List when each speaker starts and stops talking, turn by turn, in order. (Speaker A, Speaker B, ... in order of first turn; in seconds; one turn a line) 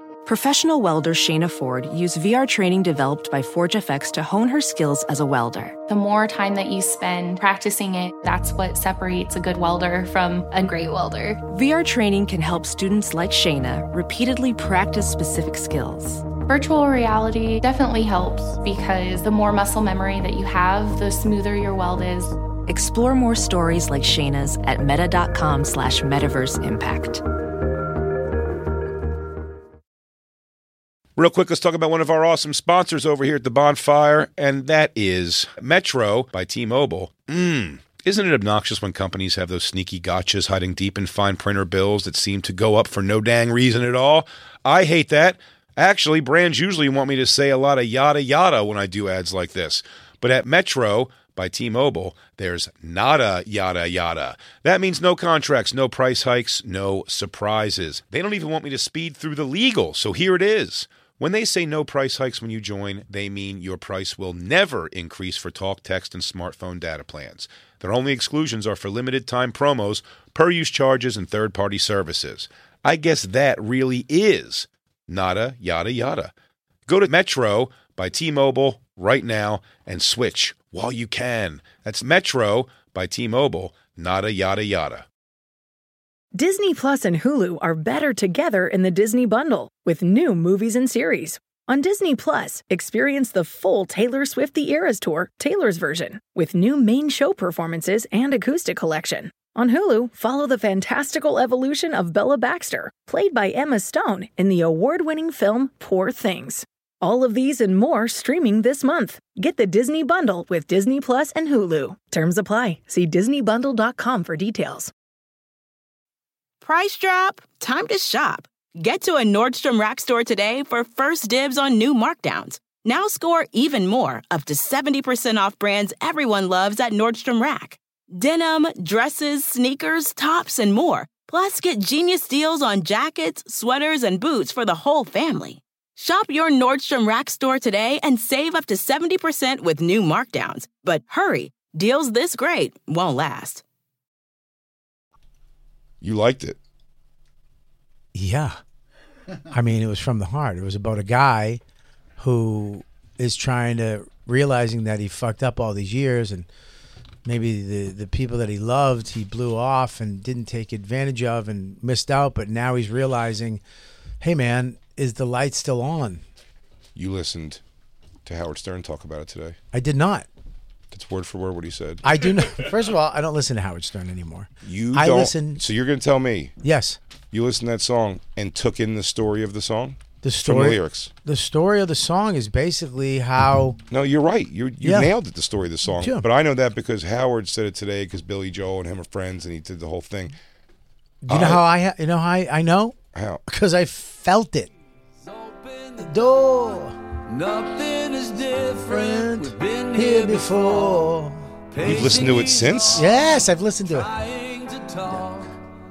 Speaker A: 0.3-5.8
Speaker B: 5.9-11.4
Speaker A: 11.5-16.3
Speaker B: 16.5-22.4
Speaker A: 22.7-27.2
Speaker C: 31.2-76.3
Speaker C: 76.9-85.1
Speaker D: 86.3-114.9
Speaker E: 116.6-143.6
Speaker C: 146.0-146.6
Speaker F: 148.1-148.6
Speaker F: 149.5-151.6
Speaker F: 152.2-156.5
Speaker F: 157.2-163.6
Speaker F: 164.2-166.2
Speaker C: 166.9-167.6
Speaker C: 168.2-169.6
Speaker F: 169.7-170.3
Speaker C: 170.9-172.1
Speaker F: 172.0-175.6
Speaker C: 174.6-176.5
Speaker F: 176.6-177.0
Speaker C: 177.3-181.1
Speaker F: 180.2-183.8
Speaker C: 183.9-190.4
Speaker F: 184.8-185.1
Speaker F: 186.0-186.3
Speaker F: 191.2-193.0
Speaker C: 191.3-191.6
Speaker C: 193.1-193.4
Speaker F: 193.5-194.7
Speaker G: 195.2-196.6
Speaker F: 196.0-197.0
Speaker G: 197.3-201.2
Speaker F: 198.9-201.4
Speaker G: 201.7-203.1
Speaker C: 201.8-203.0
Speaker F: 202.9-204.1
Speaker G: 203.9-205.5